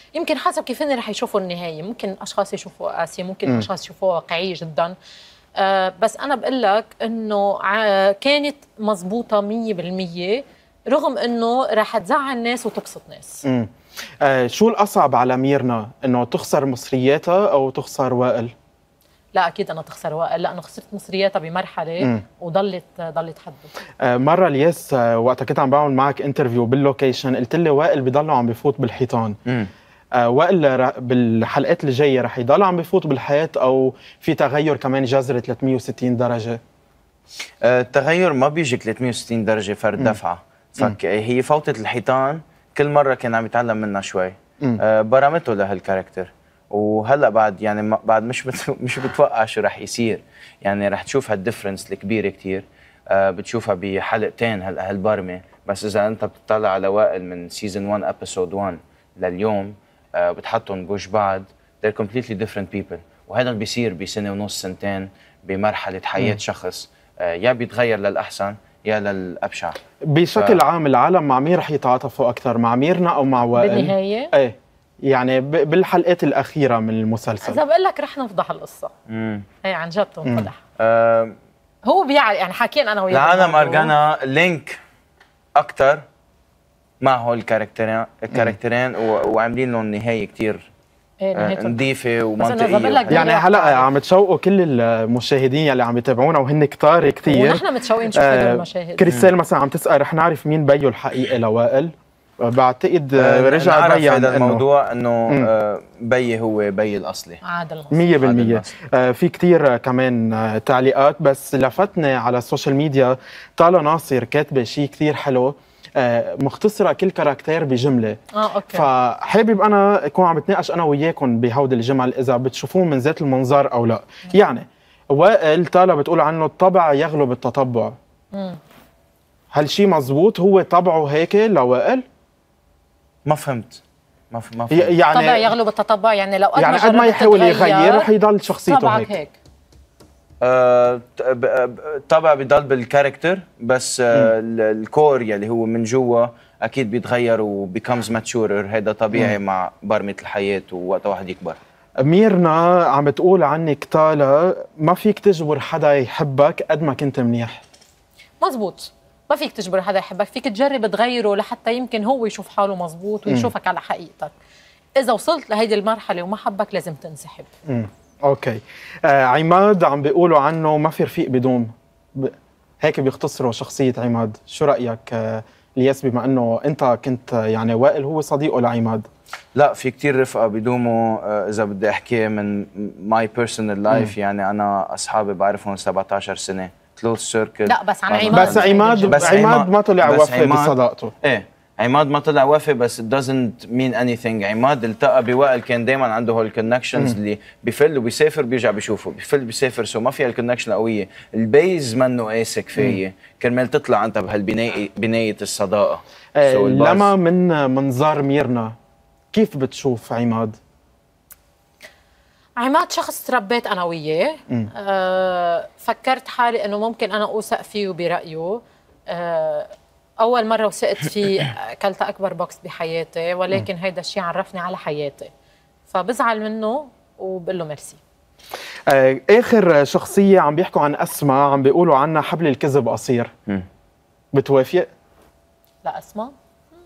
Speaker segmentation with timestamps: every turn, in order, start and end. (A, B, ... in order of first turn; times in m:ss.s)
0:00.2-0:05.0 A
0:05.6-0:13.4 A
0:13.4-0:18.5 B
0:19.4-0:23.7 A
0:24.0-0:29.4 B
0:29.5-0:29.7 C
0:30.2-0:36.6 B
0:37.6-1:09.8 C
1:10.0-1:14.6 B
1:13.6-1:14.3 A
1:15.1-1:17.6 B
1:17.4-1:18.9 A
1:19.1-1:19.5 C
1:19.6-1:20.6 A
1:20.8-1:21.4 C
1:21.8-1:23.9 A
1:23.1-1:24.8 C
1:25.6-1:26.0 C
1:27.0-1:30.7 C
1:31.2-1:31.8 A
1:31.4-1:33.3 C
1:32.4-1:33.9 A
1:33.1-1:44.6 B
1:37.3-1:39.1 A
1:43.2-1:47.4 C
1:47.4-1:48.1 A
1:47.9-1:58.2 B
1:48.2-1:48.7 C
1:58.3-1:58.9 A
1:58.7-2:08.0 B
2:08.3-2:08.6 A
2:09.5-2:12.0 B
2:13.3-2:14.9 C
2:14.7-2:15.5 B
2:15.1-2:18.1 A
2:16.6-2:19.1 B
2:18.7-2:19.4 A
2:20.4-2:31.6 C
2:32.0-2:37.6 B
2:38.4-2:44.3 A
2:45.0-2:47.5 A
2:47.7-2:59.1 B
2:59.6-3:27.1 C
3:07.7-3:09.4 A
3:08.3-3:11.1 B
3:26.4-3:28.8 B
3:29.3-3:30.6 B
3:32.6-3:45.3 A
3:45.9-3:48.0 A
3:48.9-3:53.3 B
3:54.3-3:54.9 B
3:55.8-3:56.3 A